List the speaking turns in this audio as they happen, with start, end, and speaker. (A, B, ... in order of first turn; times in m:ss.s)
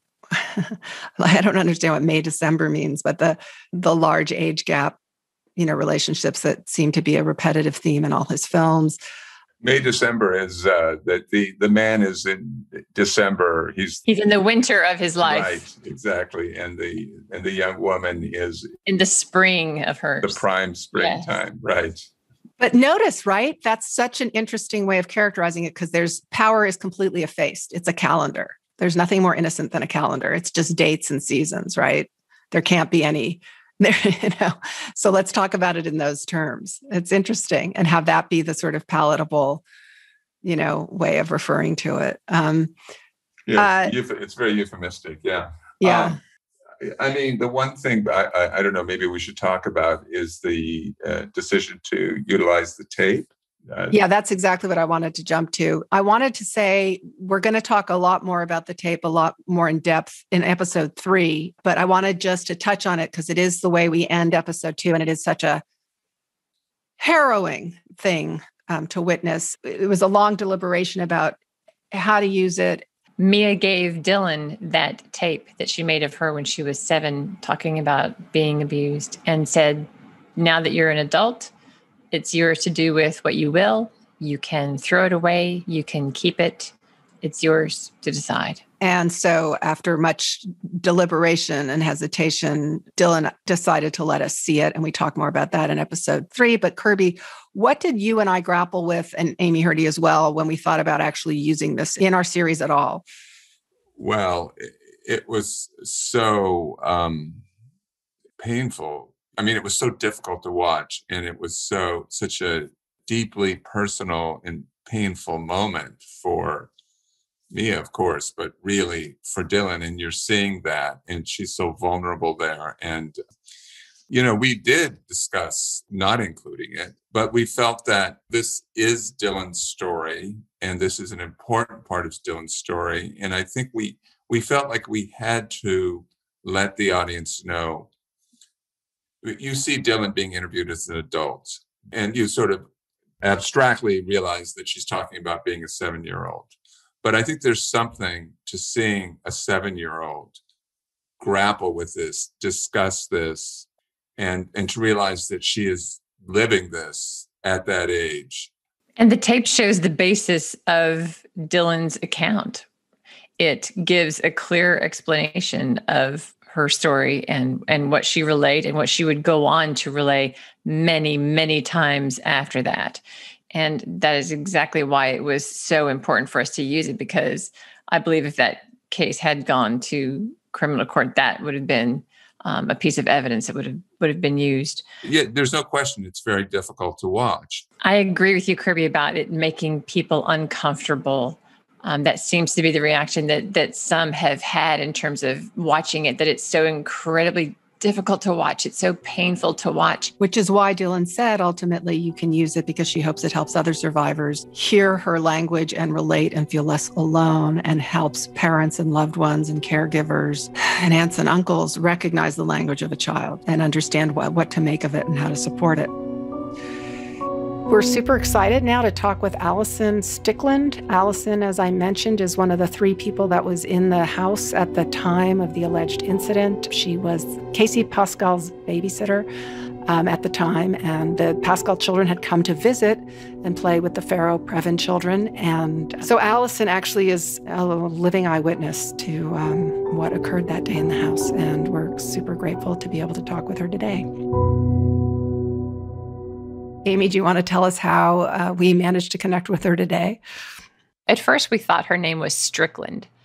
0:00.3-0:05.0 A
0:05.6-0:09.0 A
0:09.6-0:14.0 B
0:14.1-0:15.6 C
0:15.2-0:18.7 B
0:18.8-0:20.4 C
0:20.2-0:22.1 B
0:20.9-0:21.4 C
0:22.6-0:39.6 A
0:40.4-0:42.7 A
0:43.5-0:46.2 B
0:43.6-0:43.9 A
0:45.8-0:46.2 A
0:46.8-0:54.0 B
0:53.9-1:05.6 A
1:07.0-1:11.4 A
1:11.9-1:12.8 A
1:13.2-1:21.5 C
1:22.1-1:28.6 C
1:28.8-1:43.0 A
1:44.0-1:47.4 B
1:48.4-1:56.7 B
1:57.5-2:03.2 B
2:04.1-2:17.9 B
2:19.2-2:22.7 B
2:23.2-2:30.4 B
2:31.2-2:33.6 B
2:34.2-2:38.5 B
2:39.0-2:42.6 C
2:43.4-2:53.0 C
2:53.5-3:04.8 C
3:05.0-3:07.6 B
3:07.8-3:20.1 C
3:20.2-3:35.9 A
3:37.7-3:49.3 A
3:49.9-4:04.1 A
4:06.8-4:10.2 A
4:11.1-4:13.1 C